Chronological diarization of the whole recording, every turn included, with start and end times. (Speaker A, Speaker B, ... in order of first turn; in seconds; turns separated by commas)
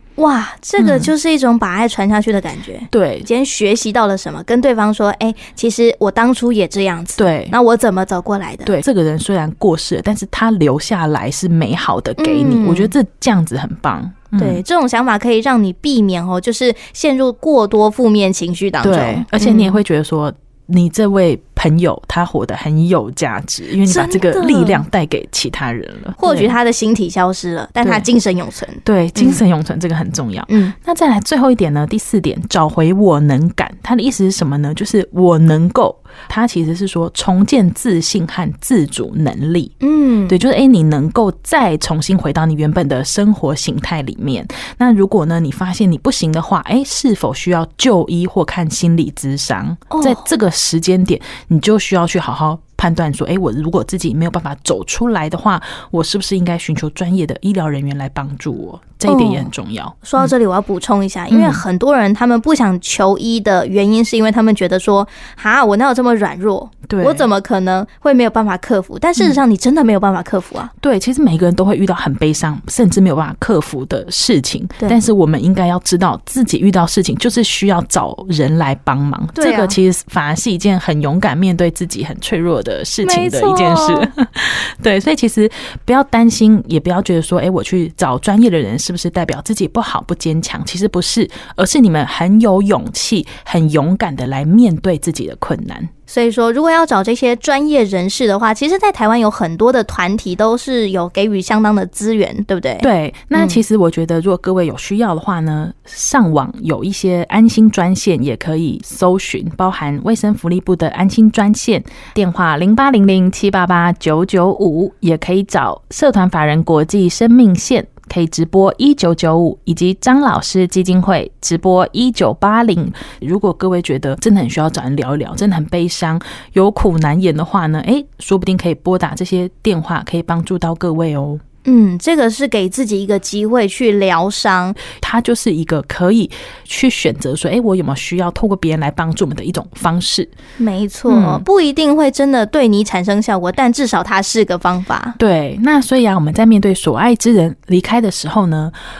Speaker A: 0.2-8.8, Speaker B: 0.8-1.1, Speaker B: 2.9-3.3, Speaker B: 7.2-7.5, Speaker B: 8.7-14.6, Speaker A: 12.2-12.9, Speaker A: 14.3-19.8, Speaker B: 18.8-26.5, Speaker A: 23.8-24.8, Speaker A: 26.2-29.4, Speaker B: 27.8-28.1, Speaker B: 28.8-39.7, Speaker A: 30.5-30.7, Speaker A: 39.8-40.4, Speaker B: 40.3-60.3, Speaker A: 49.9-50.2, Speaker A: 59.0-59.5, Speaker A: 60.0-70.7, Speaker B: 61.3-61.6, Speaker B: 66.9-67.3, Speaker B: 70.8-95.9, Speaker A: 79.3-79.8, Speaker A: 83.0-84.1, Speaker A: 96.1-103.6, Speaker B: 102.8-131.4, Speaker A: 131.6-134.8, Speaker B: 134.9-140.3, Speaker A: 140.6-145.2, Speaker B: 141.1-141.4, Speaker B: 145.2-148.7